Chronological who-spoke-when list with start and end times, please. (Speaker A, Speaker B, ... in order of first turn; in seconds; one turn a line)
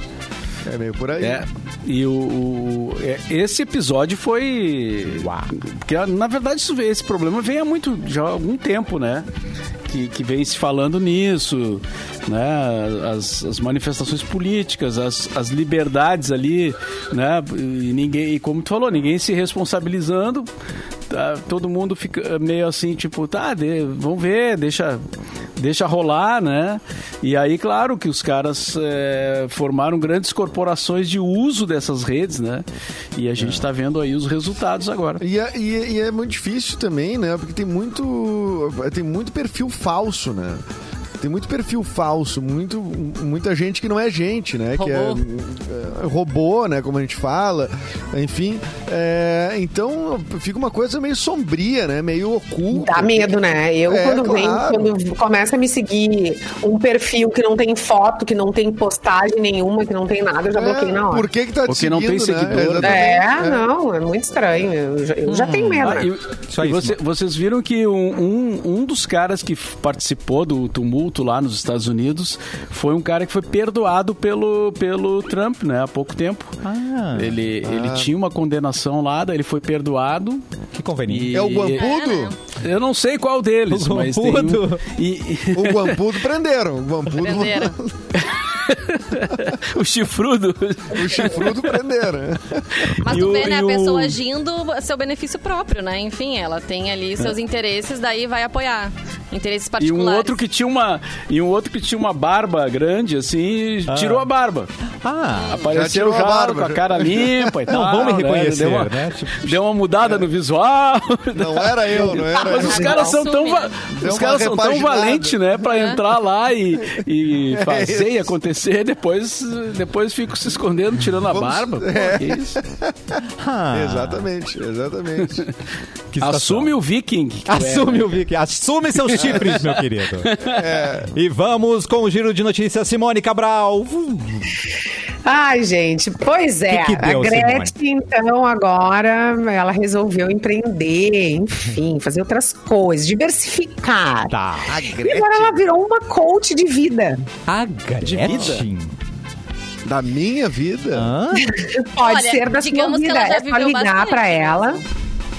Speaker A: 0.6-1.4
Speaker B: 1.2-9.2
Speaker C: 5.2-5.5
Speaker B: 9.9-20.5
Speaker B: 21.1-25.0
Speaker B: 25.6-35.2
Speaker A: 33.4-33.6
Speaker A: 35.2-40.6
Speaker A: 41.2-54.9
Speaker D: 44.8-45.2
Speaker E: 52.7-61.2
Speaker A: 60.5-63.6
Speaker B: 61.7-63.2
Speaker E: 62.8-66.1
Speaker C: 65.3-66.0
Speaker B: 65.8-76.6
Speaker C: 66.5-67.0
Speaker C: 76.6-77.3
Speaker B: 77.2-80.4
Speaker A: 77.6-78.1
Speaker C: 80.7-81.4
Speaker B: 81.1-81.8
Speaker A: 81.3-82.3
Speaker D: 81.8-82.3
Speaker B: 82.5-86.1
Speaker C: 83.7-84.8
Speaker A: 85.5-87.9
Speaker D: 87.1-87.8
Speaker B: 88.1-91.8
Speaker A: 90.9-92.9
Speaker D: 93.0-100.4
Speaker C: 93.0-94.2
Speaker B: 99.8-104.7
Speaker C: 103.9-104.2
Speaker C: 105.0-105.6
Speaker D: 105.3-105.7
Speaker B: 105.5-122.6
Speaker A: 105.7-107.7
Speaker C: 107.7-109.6
Speaker A: 111.3-113.1
Speaker D: 112.5-113.7
Speaker E: 112.5-113.1
Speaker A: 113.9-115.5
Speaker D: 115.7-116.0
Speaker A: 117.5-118.2
Speaker A: 121.3-125.5
Speaker C: 123.4-124.2
Speaker C: 126.1-126.7
Speaker B: 126.2-128.2
Speaker C: 127.5-130.3
Speaker B: 129.1-130.7
Speaker A: 129.2-129.6
Speaker A: 130.5-131.1
Speaker C: 131.1-134.5
Speaker E: 135.2-144.3
Speaker C: 136.7-137.7
Speaker C: 144.3-145.0
Speaker A: 144.7-145.5
Speaker E: 144.9-147.2
Speaker C: 147.5-148.9
Speaker B: 148.0-148.7
Speaker A: 149.8-151.1
Speaker C: 150.9-151.5
Speaker E: 151.4-154.8
Speaker D: 152.0-154.8